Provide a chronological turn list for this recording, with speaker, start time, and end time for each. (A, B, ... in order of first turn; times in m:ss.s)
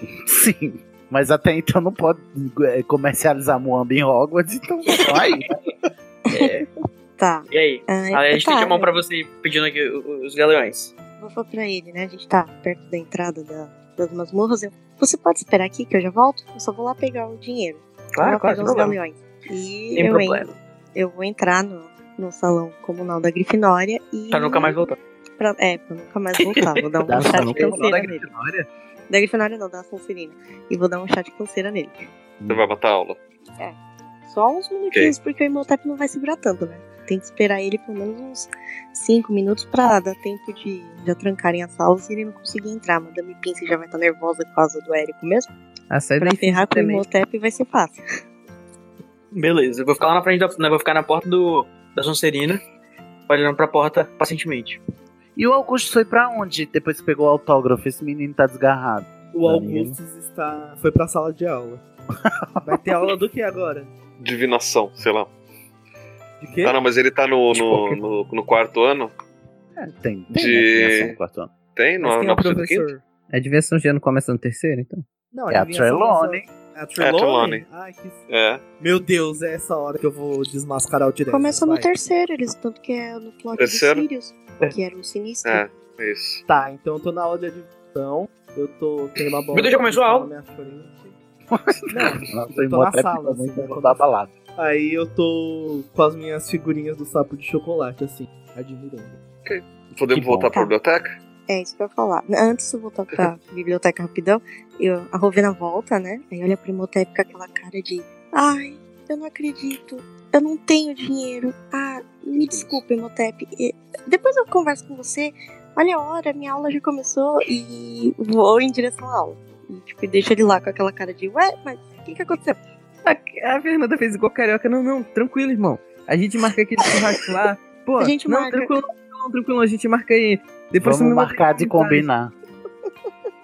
0:00.2-0:05.5 A
0:06.3-0:06.6 B
0:06.3-0:06.6 C
0:07.2-0:08.9 B
0:07.5-0:10.9 C
0:11.2-0:24.8 B
0:18.2-0:19.0 C
0:19.9-0:20.5 C
0:24.3-0:25.0 C
0:25.4-0:28.3 B
0:26.5-0:26.8 C
0:27.1-0:28.1 A
0:27.1-0:28.7 D
0:29.1-0:32.0 B
0:32.4-0:32.7 A
0:32.5-0:33.2 E
0:33.6-0:45.5 B
0:45.9-0:47.0 D
0:46.2-0:48.0 B
0:49.3-0:52.6 C
0:53.3-0:54.8 C
0:55.4-1:00.0 A
0:59.3-1:01.8 F
1:02.6-1:03.9 F
1:04.2-1:05.3 E
1:06.4-1:06.8 F
1:06.6-1:09.1 E
1:07.5-1:08.0 D
1:09.8-1:11.5 A
1:10.3-1:12.9 E
1:12.0-1:15.0 D
1:12.1-1:13.0 F
1:15.3-1:18.2 F
1:15.5-1:16.4 A
1:17.0-1:17.6 E
1:18.3-1:18.6 E
1:18.8-1:21.9 F
1:21.3-1:25.6 B
1:23.5-1:24.0 E
1:25.4-1:26.4 E
1:26.5-1:31.1 F
1:29.5-1:30.3 C
1:31.5-1:34.3 A
1:31.9-1:34.0 F
1:34.6-1:39.2 F
1:39.4-1:41.2 E
1:40.1-1:40.5 A
1:41.5-2:02.6 B
1:52.3-1:52.8 E
2:03.0-2:12.1 D
2:08.0-2:08.7 B
2:10.8-2:12.3 A